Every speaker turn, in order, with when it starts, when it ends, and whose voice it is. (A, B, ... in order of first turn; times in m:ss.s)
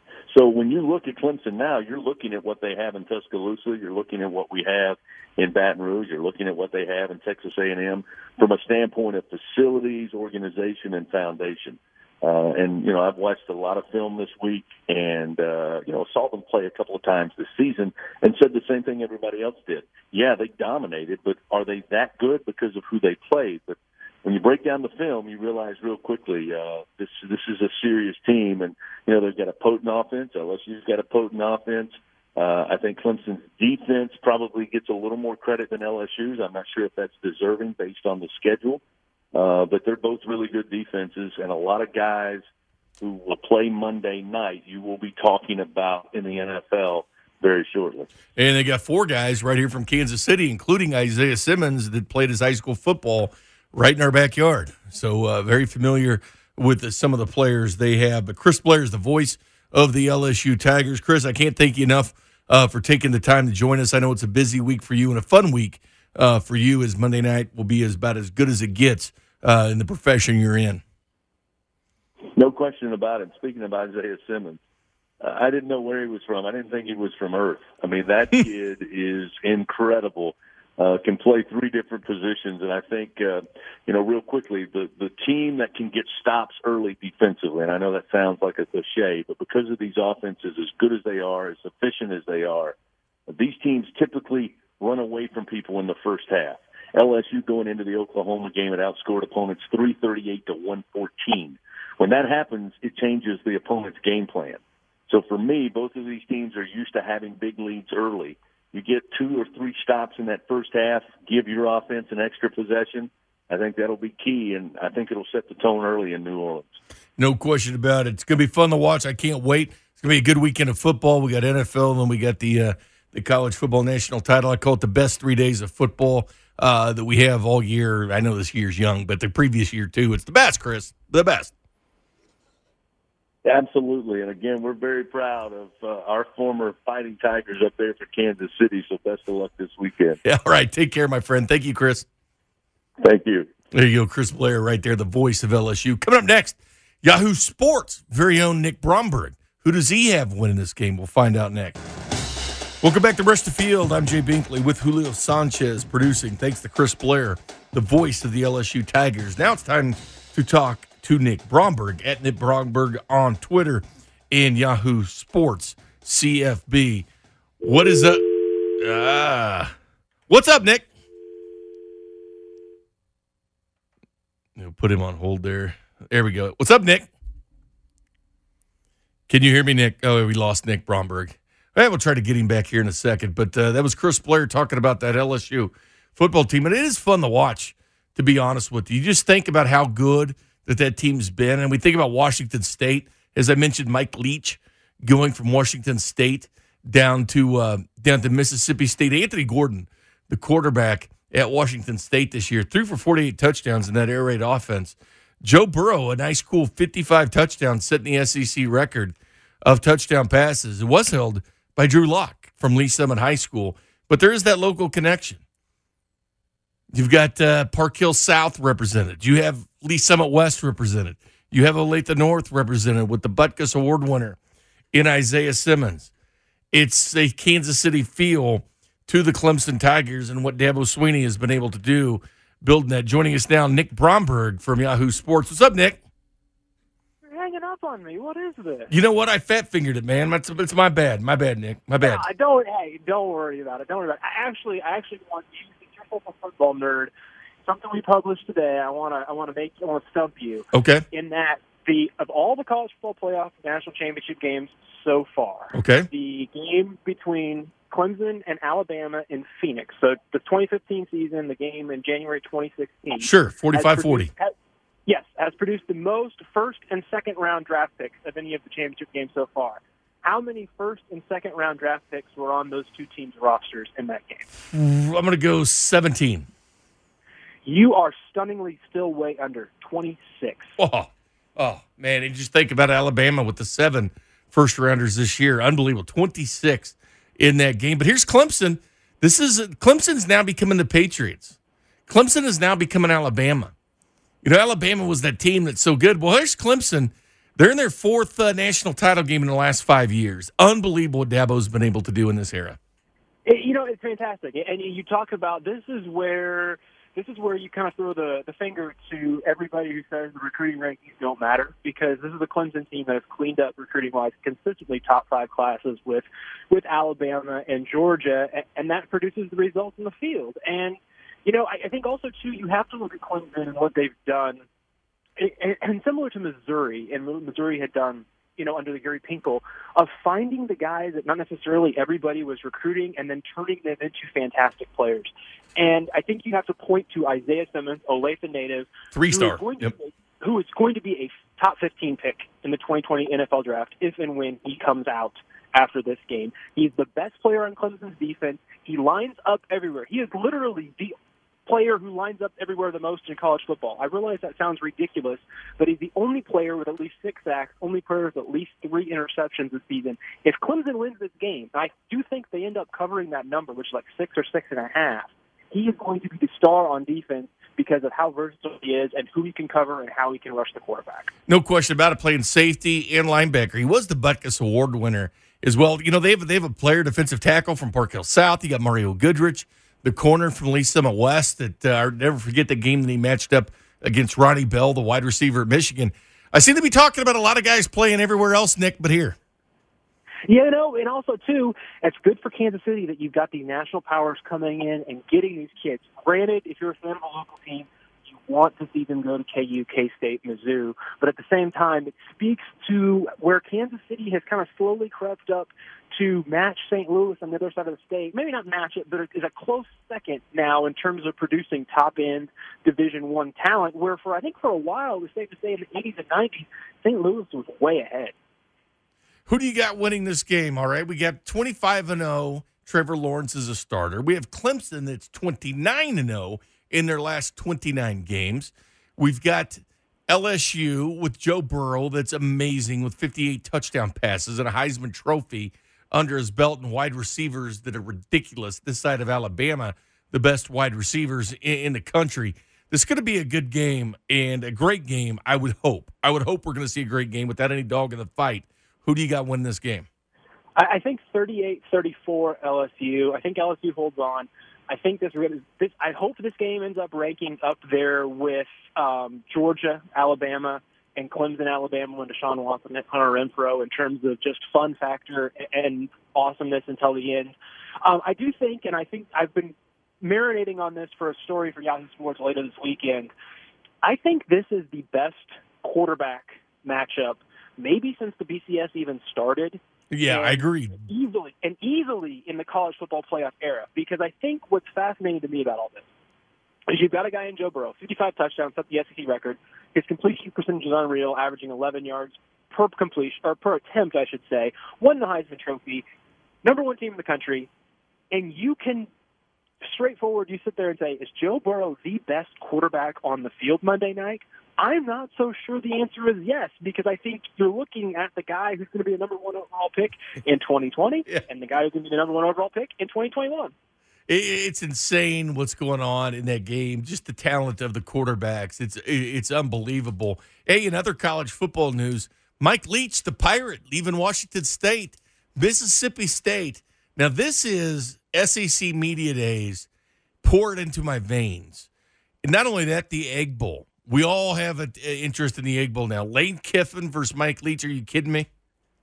0:00.3-0:38.8 A
0:39.3-0:42.4 A
0:43.0-0:48.1 A
0:48.4-1:10.8 B
1:12.4-1:14.6 A
1:15.2-1:32.8 A
1:33.3-1:56.8 A
1:57.2-2:11.5 B
2:13.4-2:20.2 A
2:20.2-2:22.1 B
2:23.0-2:23.5 A
2:23.7-2:31.8 B
2:32.8-2:47.1 B
2:47.6-2:49.7 B
2:50.3-2:50.9 B
2:54.6-2:57.1 B
2:59.3-3:35.4 B
3:36.9-3:44.4 B
3:44.9-3:46.1 B
3:46.7-3:56.0 B
3:57.2-3:58.9 C
3:58.9-4:02.2 B
4:02.0-4:07.1 C
4:07.6-4:24.5 C
4:10.7-4:11.0 B
4:15.7-4:16.1 B
4:23.2-4:24.3 B
4:25.1-4:34.5 C
4:34.7-4:36.5 B
4:37.6-4:40.8 C
4:40.8-4:51.6 B
4:52.1-4:53.7 B
4:54.4-5:02.8 B
5:03.4-5:24.6 C
5:25.4-5:51.2 C
5:39.1-5:39.9 B
5:51.7-6:11.3 C
6:11.5-6:29.4 B
6:30.5-6:58.3 C
6:59.5-7:30.1 B
7:30.8-7:53.3 C
7:54.0-8:06.1 C
8:00.1-8:01.1 B
8:06.9-8:16.1 C
8:16.6-8:17.7 C
8:18.3-8:19.1 C
8:19.8-8:33.7 C
8:34.3-8:49.9 B
8:50.4-8:51.9 B
8:52.4-8:58.5 B